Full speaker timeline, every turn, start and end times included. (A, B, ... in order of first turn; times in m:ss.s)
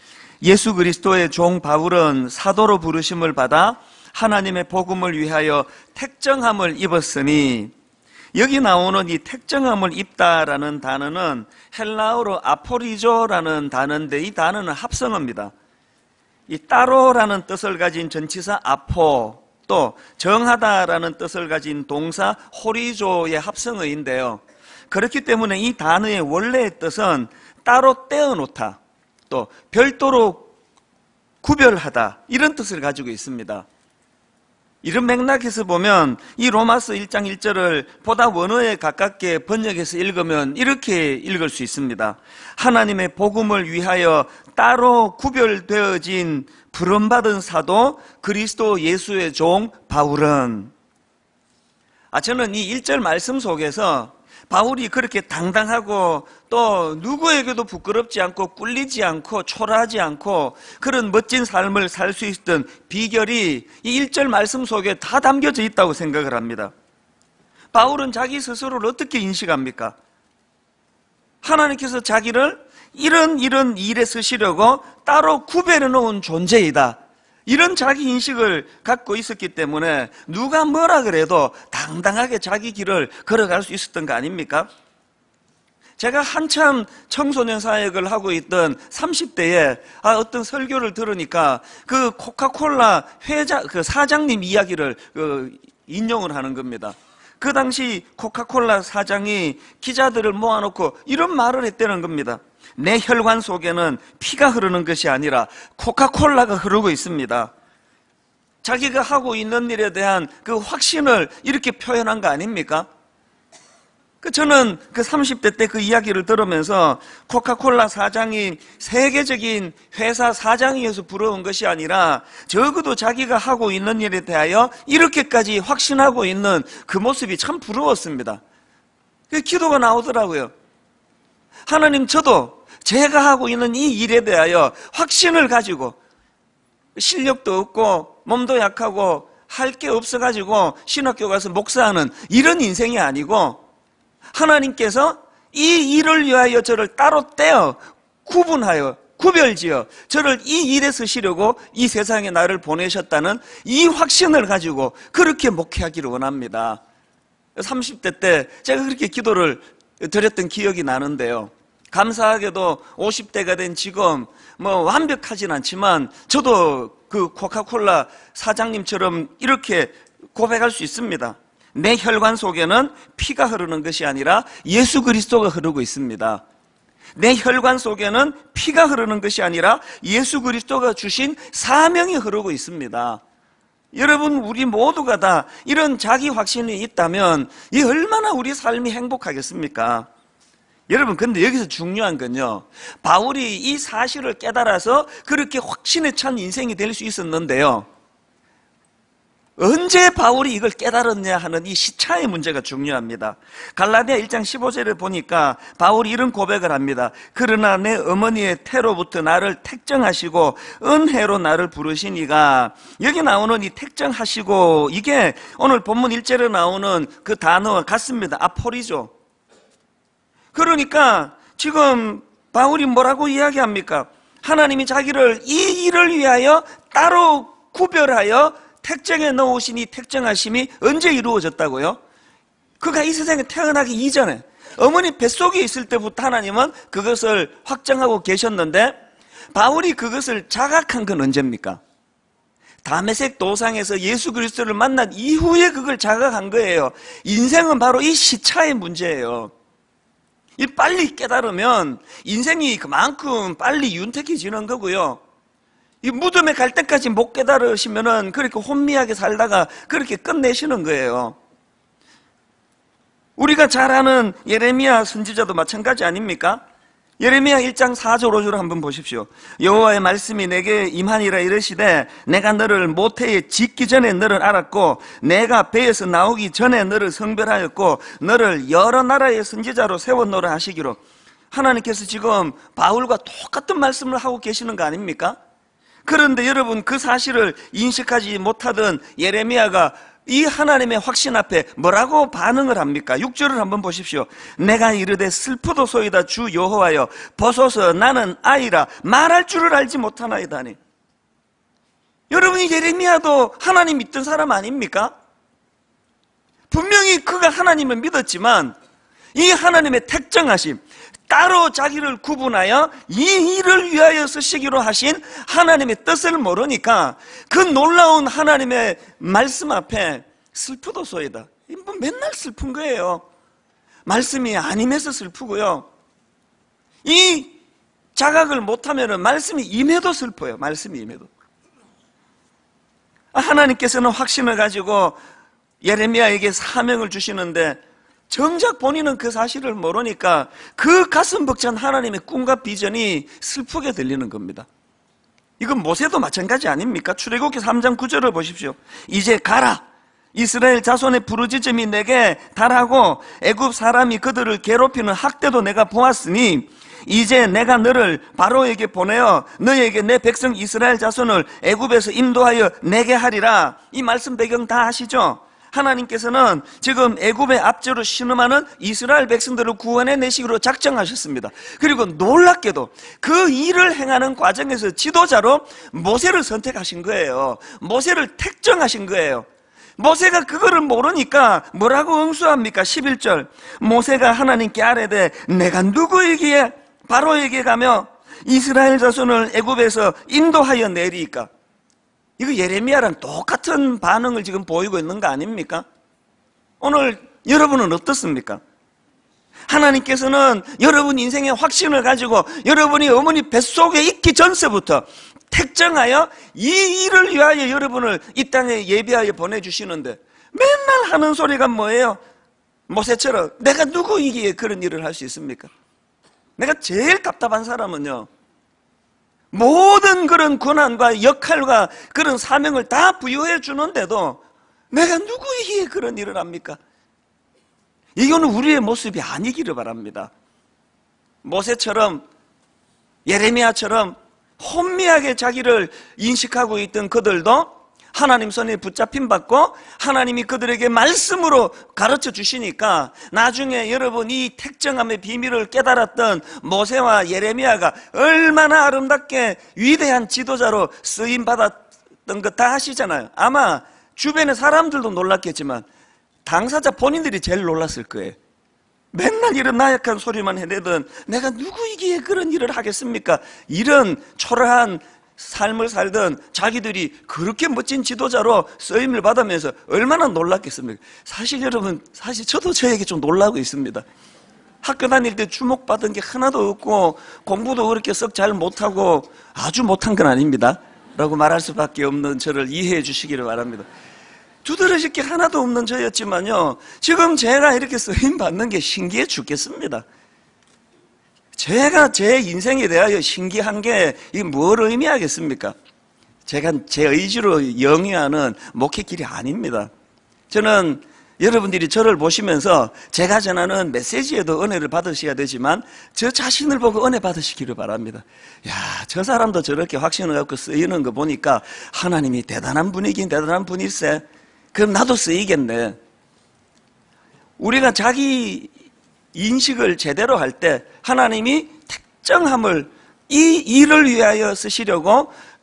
0:00.4-0:07.7 A
0:08.3-0:15.5 A
0:16.5-0:28.8 A
0:29.3-0:30.5 A
0:31.4-0:33.6 A
0:34.8-0:50.7 A
0:52.1-1:06.7 A
1:07.7-1:10.0 A
1:11.4-1:24.7 A
1:26.0-1:47.5 A
1:48.6-1:52.9 A
1:54.2-2:08.4 A
2:09.3-2:10.5 A
2:11.7-2:16.0 A
2:17.0-2:23.6 A
2:24.3-2:36.8 A
2:37.6-2:56.4 A
2:57.2-3:03.2 A
3:03.9-3:10.1 A
3:10.9-3:17.9 A
3:19.6-3:39.1 A
3:40.5-3:52.0 A
3:52.8-3:59.0 A
3:59.5-4:01.8 A
4:02.8-4:09.5 A
4:10.6-4:15.2 A
4:16.0-4:21.4 A
4:23.4-4:26.6 A
4:27.2-4:41.0 A
4:41.5-4:45.4 A
4:46.0-5:00.8 A
5:02.3-5:05.1 A
5:06.7-5:08.8 A
5:09.3-5:23.2 A
5:24.0-5:25.9 A
5:27.0-5:27.5 A
5:28.2-5:31.3 A
5:33.3-5:35.2 A
5:35.8-5:44.7 A
5:45.6-6:19.4 A
6:20.0-6:31.5 A
6:32.4-6:35.8 A
6:36.8-6:38.6 A
6:39.7-6:52.2 A
6:52.9-6:55.7 A
6:56.6-6:58.3 A
6:59.5-7:04.4 A
7:04.9-7:06.8 A
7:08.2-7:10.3 A
7:11.4-7:12.2 A
7:13.2-7:35.8 A
7:36.4-7:38.4 A
7:39.1-7:54.0 A
7:54.8-8:03.9 A
8:04.6-8:10.0 A
8:11.6-8:15.7 A
8:16.4-8:19.9 A
8:20.5-8:36.0 A
8:37.6-8:38.7 A
8:39.3-8:45.3 A